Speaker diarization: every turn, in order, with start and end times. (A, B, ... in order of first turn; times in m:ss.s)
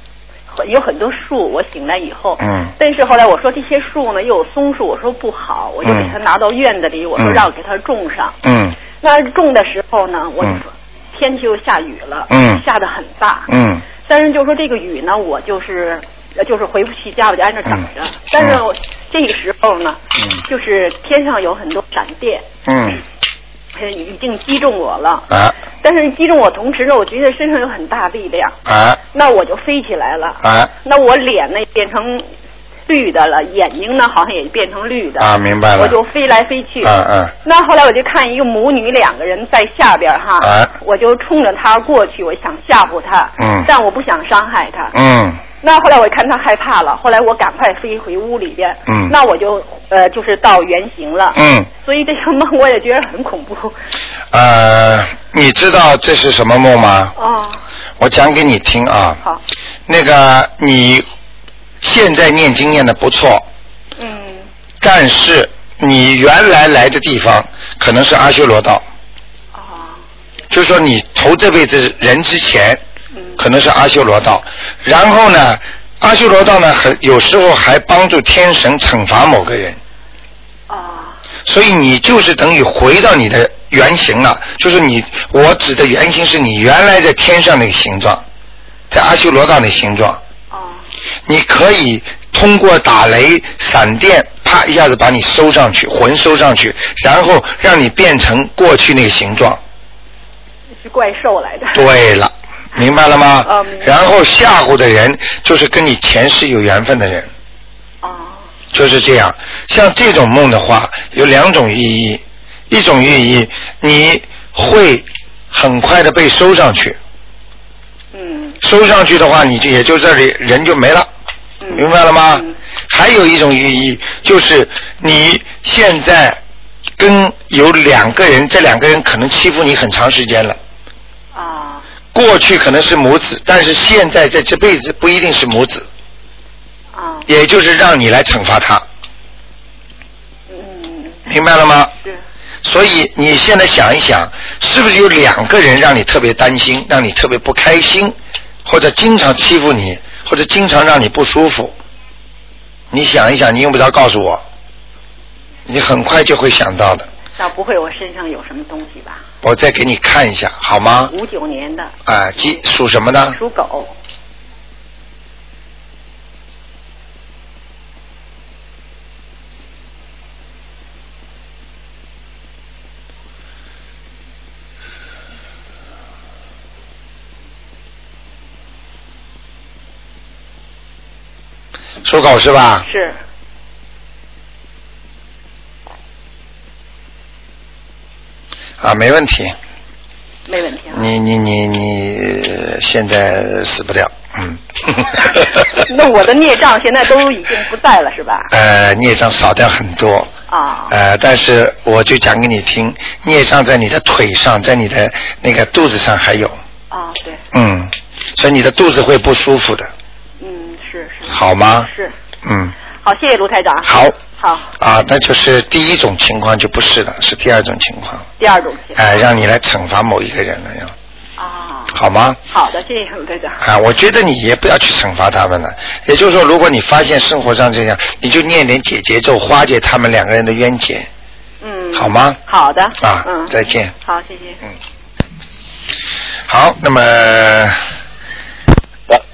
0:00.5-0:08.4 A
0:02.4-0:02.7 B
0:05.8-0:06.2 B
0:07.2-0:07.5 B
0:08.4-0:08.8 B
0:09.0-0:13.5 A
0:12.3-0:12.6 B
0:13.5-0:13.8 B
0:14.0-0:22.5 A
0:17.7-0:18.6 B
0:22.7-0:23.0 B
0:23.8-0:25.3 A
0:25.3-0:25.6 B
0:25.8-0:28.6 A
0:28.7-0:29.0 B
0:29.1-0:32.2 A
0:30.4-0:30.7 B
0:32.9-0:36.9 A
0:35.2-0:36.0 B
0:36.8-0:37.3 B
0:37.4-0:44.9 A
0:40.4-0:40.7 B
0:43.4-0:43.7 B
0:44.9-0:45.4 B
0:45.6-0:53.8 A
0:48.9-0:49.2 B
0:51.3-0:51.7 B
0:54.3-0:57.2 B
0:57.2-0:57.6 A
0:58.0-0:59.2 B
0:59.9-1:01.0 B
1:01.8-1:03.5 B
1:04.0-1:04.5 A
1:04.8-1:08.8 B
1:09.5-1:10.0 A
1:10.5-1:12.8 B
1:13.2-1:13.4 A
1:13.4-1:19.8 B
1:20.7-1:21.2 A
1:21.5-1:28.2 B
1:28.9-1:30.2 B
1:30.5-1:30.8 A
1:31.3-1:39.6 B
1:40.8-1:41.9 A
1:41.7-1:47.3 B
1:43.4-1:43.9 A
1:48.0-1:48.5 A
1:48.7-1:57.0 B
1:58.1-1:58.6 A
1:58.6-2:01.1 B
2:01.6-2:02.6 A
2:01.7-2:06.4 B
2:07.0-2:10.6 B
2:11.3-2:11.8 A
2:12.1-2:15.9 B
2:16.9-2:17.3 A
2:17.3-2:18.8 B
2:20.5-2:21.2 A
2:21.3-2:21.9 B
2:22.6-2:31.8 B
2:32.9-2:34.4 B
2:35.7-2:37.1 B
2:37.4-2:39.2 A
2:39.4-2:41.1 B
2:41.1-2:41.9 A
2:42.1-2:43.4 B
2:43.3-2:43.9 A
3:02.0-3:02.9 B
3:02.8-3:03.2 A
3:08.8-3:09.6 B
3:10.5-3:11.1 A
3:10.9-3:15.8 B
3:15.3-3:18.5 A
3:18.5-3:20.3 B
3:20.5-3:20.9 A
3:20.9-3:26.6 B
3:26.9-3:27.4 A
3:27.5-3:29.9 B
3:30.4-3:32.1 A
3:31.3-3:31.9 B
3:32.4-3:32.8 B
3:33.0-3:34.7 A
3:33.9-3:34.2 B
3:34.8-3:38.3 B
3:38.4-3:39.3 A
3:39.0-3:40.9 B
3:41.4-3:42.0 A
3:41.9-3:42.4 B
3:42.5-3:43.6 A
3:43.6-3:51.1 B
3:51.6-3:54.6 A
3:51.9-3:52.4 B
3:53.0-3:53.9 B
3:56.5-3:57.8 B